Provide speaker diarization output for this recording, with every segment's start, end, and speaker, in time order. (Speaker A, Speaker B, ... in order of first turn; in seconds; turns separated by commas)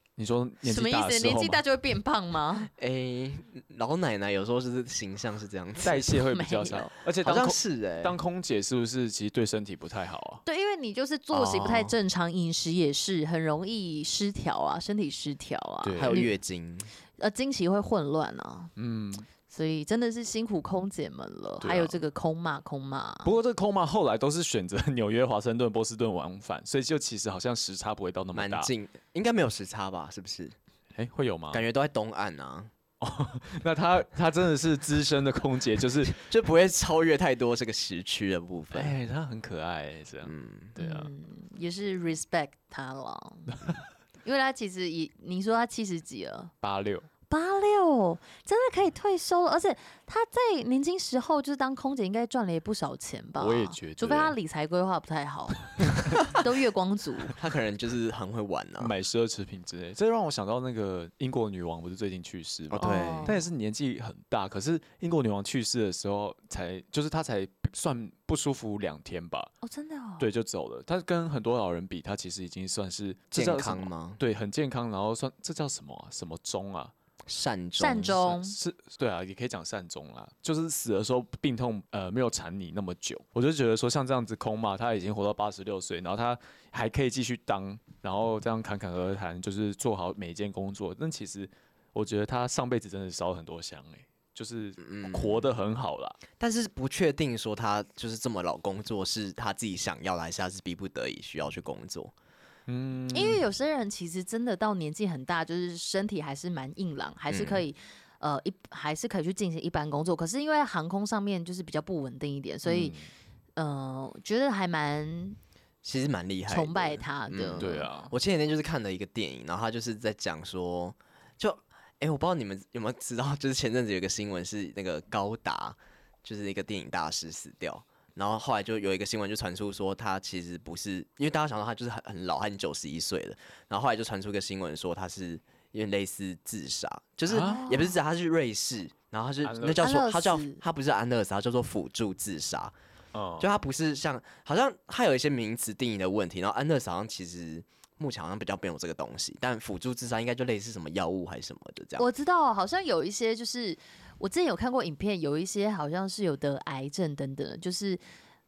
Speaker A: 0.2-1.6, Speaker B: 0.6-2.7, Speaker C: 2.8-6.2, Speaker A: 5.8-10.4, Speaker B: 6.3-6.9, Speaker C: 7.2-8.2, Speaker B: 10.4-16.3, Speaker C: 11.3-11.9, Speaker A: 15.8-16.3, Speaker C: 16.0-16.9, Speaker B: 17.2-18.7, Speaker A: 18.8-19.3, Speaker B: 19.5-23.3, Speaker A: 21.6-22.0, Speaker A: 23.2-28.7, Speaker C: 28.3-30.6, Speaker A: 30.9-31.6, Speaker C: 31.5-32.7, Speaker A: 33.0-36.2, Speaker C: 36.0-39.0, Speaker A: 38.7-41.1, Speaker C: 40.2-40.7, Speaker B: 40.8-43.6, Speaker B: 44.2-46.5, Speaker A: 46.6-47.1, Speaker B: 47.3-57.3, Speaker A: 53.4-54.4, Speaker C: 57.4-58.9, Speaker A: 58.8-69.5, Speaker C: 62.7-63.4, Speaker B: 62.8-63.4, Speaker B: 69.6-70.3, Speaker A: 70.2-76.9, Speaker C: 73.3-74.2, Speaker C: 77.3-78.2, Speaker B: 77.8-78.6, Speaker A: 78.0-96.2, Speaker C: 94.8-95.5, Speaker C: 96.4-102.1, Speaker A: 102.7-103.4, Speaker B: 103.1-113.0, Speaker C: 107.3-107.7, Speaker A: 112.7-113.1, Speaker B: 113.6-115.4, Speaker C: 115.8-142.7, Speaker B: 116.5-117.9, Speaker A: 117.6-118.1, Speaker A: 137.3-137.6, Speaker B: 137.3-137.9, Speaker A: 139.4-139.9, Speaker B: 139.8-140.6, Speaker A: 143.1-143.5, Speaker C: 143.4-152.1, Speaker B: 152.0-158.0